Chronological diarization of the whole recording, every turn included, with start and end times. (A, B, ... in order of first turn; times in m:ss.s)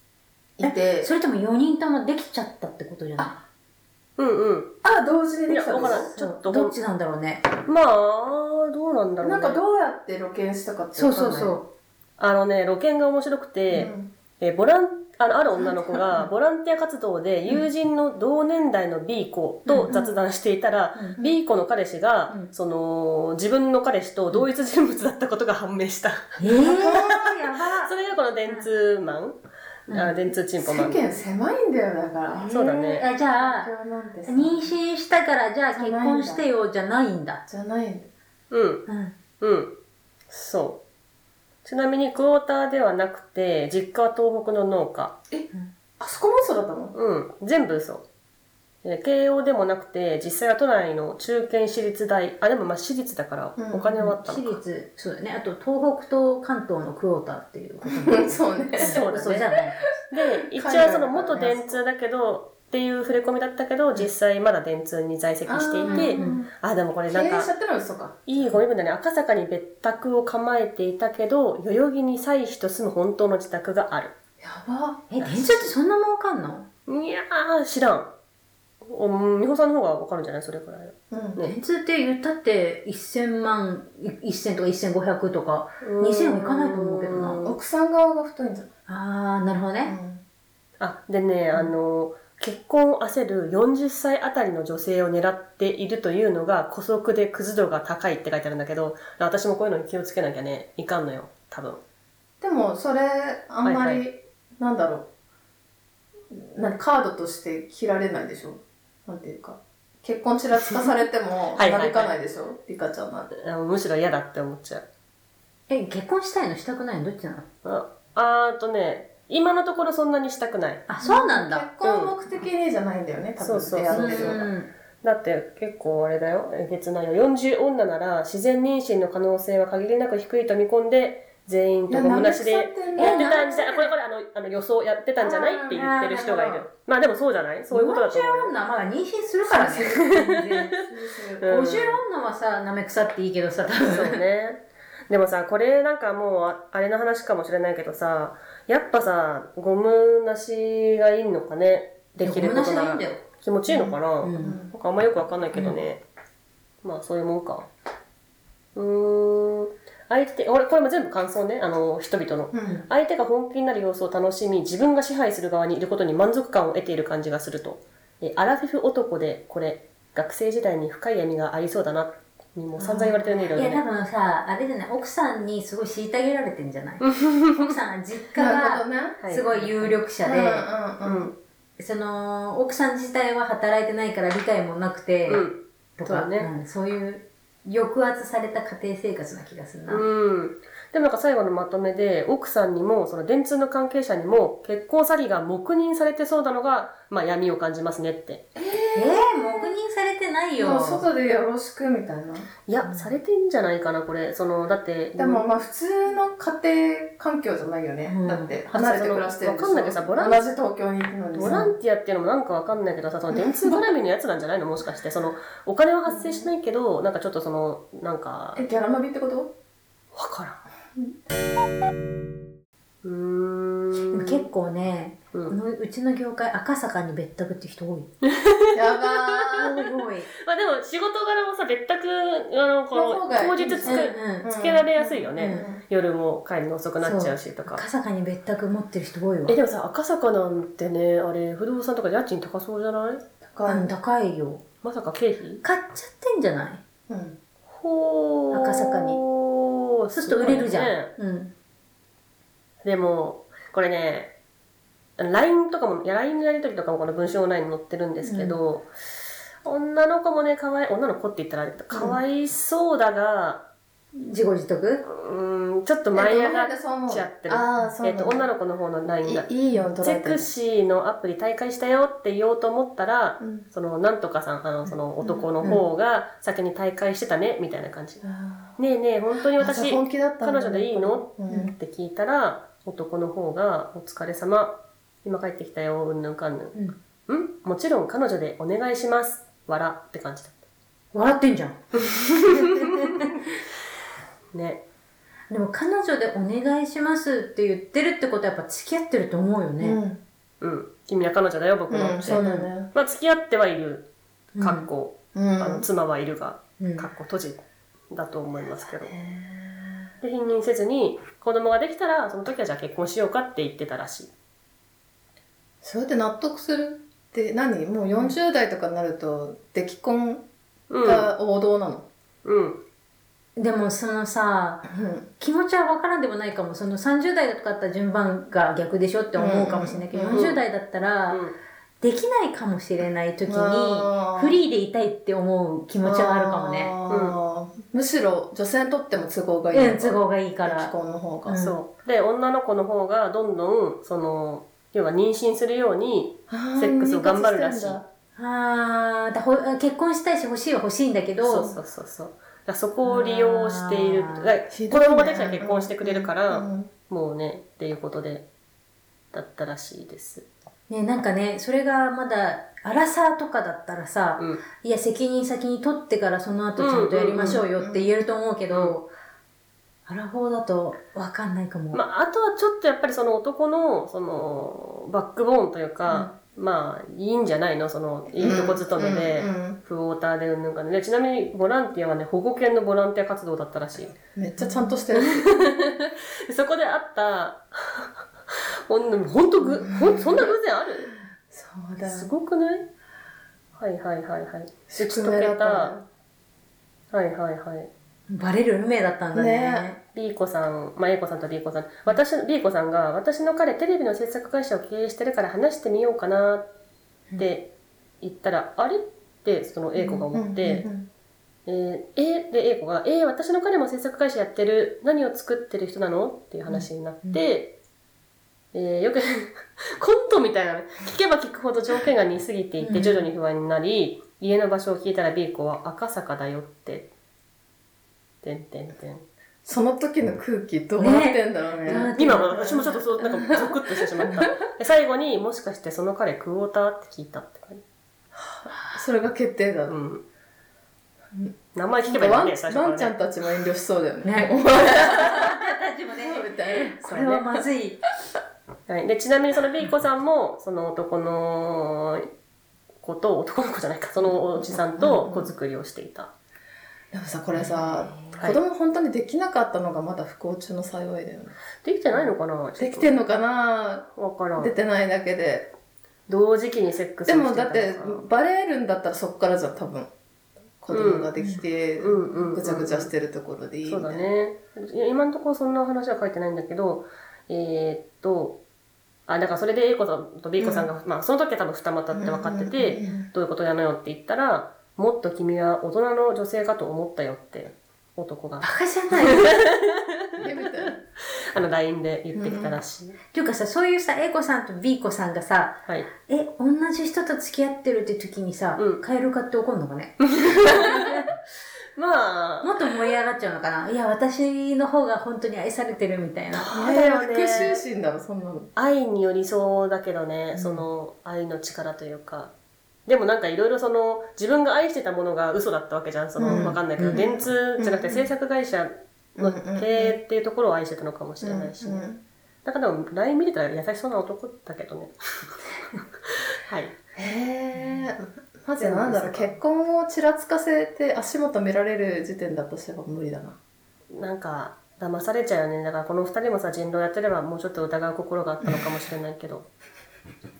0:00.6-0:01.1 A
0:00.6-0:03.4 B
0:04.2-0:04.8 C
0:04.8-0:06.1 A
0:05.5-0:06.7 C
0:05.9-0:07.4 B
0:07.6-0:09.6 C
0:09.2-0:11.6 A
0:10.9-0:11.7 B
0:12.2-0:31.0 C
0:13.7-0:14.1 A
0:19.7-0:20.0 B
0:26.4-0:27.9 B
0:26.5-0:27.3 A
0:29.9-0:30.1 B
0:30.6-0:32.5 A
0:32.3-0:33.7 B
0:32.5-0:33.0 C
0:33.3-0:34.7 A
0:34.2-0:37.4 B
0:35.7-0:36.4 A
0:37.5-0:38.1 A
0:38.5-0:38.8 C
0:38.9-0:39.1 B
0:39.4-0:39.7 C
0:40.3-0:40.8 C
0:41.6-0:45.2 C
0:45.3-0:46.9 A
0:46.9-0:48.0 C
0:48.8-0:54.6 C
0:53.6-0:53.9 A
0:54.0-0:59.8 B
0:57.8-0:59.0 A
0:58.8-0:59.5 C
1:00.1-1:07.5 C
1:00.2-1:01.8 A
1:05.4-1:06.5 A
1:05.8-1:06.4 B
1:07.1-1:08.3 A
1:08.2-1:14.1 C
1:14.4-1:15.1 A
1:15.1-1:16.6 B
1:15.2-1:15.7 C
1:16.9-1:18.1 C
1:18.8-1:21.5 C
1:21.1-1:21.4 A
1:21.4-1:27.4 B
1:25.8-1:27.6 C
1:27.4-1:28.7 A
1:28.9-1:29.9 B
1:29.8-1:30.2 A
1:30.8-1:41.8 C
1:42.4-1:45.1 A
1:43.6-1:44.0 C
1:46.3-1:53.3 A
1:51.6-1:52.2 C
1:53.3-1:54.8 C
1:55.7-1:57.4 B
1:57.6-2:00.9 C
2:00.9-2:01.7 B
2:01.0-2:04.4 A
2:01.8-2:02.1 C
2:03.4-2:04.5 C
2:03.9-2:04.7 B
2:05.0-2:18.5 C
2:11.9-2:13.4 A
2:13.0-2:13.9 B
2:15.2-2:16.0 A
2:15.7-2:16.6 B
2:17.7-2:20.8 B
2:19.5-2:20.8 C
2:20.9-2:21.4 A
2:21.4-2:22.0 C
2:21.4-2:24.2 B
2:23.7-2:36.0 C
2:32.2-2:33.2 B
2:33.7-2:34.7 A
2:34.2-2:34.6 B
2:36.8-2:37.7 C
2:38.7-2:53.8 C
2:42.5-2:42.8 A
2:52.8-3:00.7 B
2:52.9-2:53.5 A
2:57.0-2:57.7 C
2:58.4-2:59.2 A
2:59.2-2:59.7 C
3:00.2-3:01.3 A
3:01.0-3:01.3 C
3:01.8-3:10.0 B
3:05.3-3:06.5 C
3:09.9-3:18.4 C
3:18.5-3:19.7 A
3:18.9-3:21.0 B
3:20.6-3:22.5 A
3:22.7-3:25.4 C
3:22.8-3:23.1 B
3:25.2-3:31.7 A
3:28.0-3:28.5 B
3:28.7-3:30.4 C
3:31.3-3:38.6 C
3:31.4-3:31.7 B
3:33.3-3:33.8 A
3:36.1-3:36.5 A
3:38.6-3:39.5 A
3:40.1-3:40.6 C
3:43.0-3:44.4 C
3:44.0-3:48.1 B
3:48.2-3:57.8 C
3:48.7-3:49.7 A
3:49.6-3:50.3 B
3:52.9-3:55.8 A
3:53.8-3:54.5 B
3:55.4-3:55.6 B
3:57.0-3:59.6 B
3:59.5-4:03.2 C
4:03.4-4:03.9 A
4:03.7-4:04.6 B
4:04.8-4:05.6 C
4:05.6-4:06.8 B
4:07.1-4:07.4 A
4:07.7-4:11.1 C
4:08.5-4:09.2 B
4:10.1-4:11.5 B
4:12.8-4:14.3 C
4:15.2-4:18.9 C
4:18.2-4:18.6 B
4:19.6-4:23.6 C
4:21.9-4:22.2 A
4:24.2-4:25.0 B
4:25.0-4:29.5 C
4:26.1-4:28.4 A
4:29.2-4:30.5 A
4:30.0-4:38.2 C
4:33.4-4:33.6 A
4:35.2-4:35.7 A
4:38.2-4:38.7 A
4:38.8-4:46.8 C
4:39.6-4:41.7 A
4:47.3-4:50.6 C
4:51.1-4:51.8 B
4:51.9-4:53.3 C
4:52.5-4:53.3 B
4:54.5-4:54.8 C
4:55.5-5:00.0 B
4:59.8-5:00.2 A
5:00.6-5:09.1 C
5:01.9-5:02.9 A
5:02.3-5:02.7 B
5:04.6-5:04.9 B
5:05.3-5:05.8 A
5:06.8-5:07.1 B
5:09.1-5:10.1 A
5:10.2-5:14.3 C
5:15.8-5:20.4 A
5:20.9-5:21.3 C
5:21.0-5:22.1 A
5:22.4-5:22.8 C
5:23.6-5:24.9 B
5:24.9-5:25.3 A
5:25.4-5:31.4 B
5:29.4-5:30.4 A
5:30.3-5:30.6 C
5:31.3-5:31.5 C
5:32.0-5:37.0 B
5:33.5-5:34.6 A
5:36.0-5:41.6 A
5:37.1-5:37.4 C
5:39.7-5:40.9 B
5:41.4-5:41.8 B
5:41.6-5:48.0 C
5:46.5-5:48.0 A
5:48.4-5:51.7 B
5:51.4-5:58.5 C
5:53.0-5:54.5 B
5:54.7-5:56.9 A
5:59.3-6:00.4 C
6:00.9-6:09.1 B
6:06.8-6:07.6 C
6:07.3-6:08.1 A
6:08.7-6:09.0 C
6:10.1-6:12.0 B
6:11.9-6:24.2 C
6:18.4-6:19.8 A
6:24.3-6:25.6 A
6:24.6-6:24.9 B
6:25.1-6:28.1 C
6:28.9-6:31.1 C
6:29.8-6:30.5 A
6:31.5-6:32.3 A
6:32.0-6:32.9 C
6:33.8-6:36.0 C
6:34.9-6:36.0 A
6:37.1-6:37.9 C
6:38.3-6:40.0 B
6:39.3-6:39.9 A
6:40.1-6:46.7 C
6:47.4-6:47.7 C
6:48.2-6:50.8 C
6:50.0-6:51.1 A
6:51.6-6:57.7 C
6:56.7-6:57.4 B
6:58.7-7:07.1 C
7:02.8-7:03.2 B
7:08.4-7:09.2 C
7:09.6-7:14.6 A
7:11.0-7:12.9 B
7:11.8-7:17.8 C
7:18.4-7:20.0 A
7:19.9-7:20.2 C
7:21.7-7:23.2 C
7:22.1-7:25.6 A
7:24.2-7:28.0 B
7:26.2-7:26.9 A
7:27.0-7:27.4 C
7:28.9-7:32.3 C
7:33.0-7:36.3 C
7:34.6-7:35.5 A
7:37.1-7:41.6 A
7:37.6-7:38.4 B
7:41.8-7:43.2 C
7:42.1-7:45.7 A
7:44.1-7:44.7 C
7:46.3-7:48.2 C
7:47.2-7:50.1 A
7:50.8-7:54.3 A
7:50.9-7:51.3 C
7:52.0-7:53.1 C
7:53.8-7:58.6 C
7:59.3-8:13.2 C
8:00.6-8:00.9 A
8:02.1-8:03.2 A
8:08.6-8:09.6 B
8:10.4-8:11.0 A
8:12.3-8:12.8 A
8:13.3-8:21.2 B
8:18.8-8:19.0 C
8:20.2-8:21.3 C
8:21.9-8:22.8 C
8:22.6-8:26.7 B
8:26.5-8:27.8 C
8:26.7-8:28.7 A
8:28.8-8:32.5 C
8:30.6-8:30.8 A
8:33.1-8:42.1 C
8:36.4-8:38.3 A
8:36.4-8:37.2 B
8:39.4-8:40.2 A
8:41.4-8:42.2 A
8:42.6-8:46.9 C
8:47.2-8:53.6 A
8:48.8-8:49.5 C
8:54.1-8:59.7 C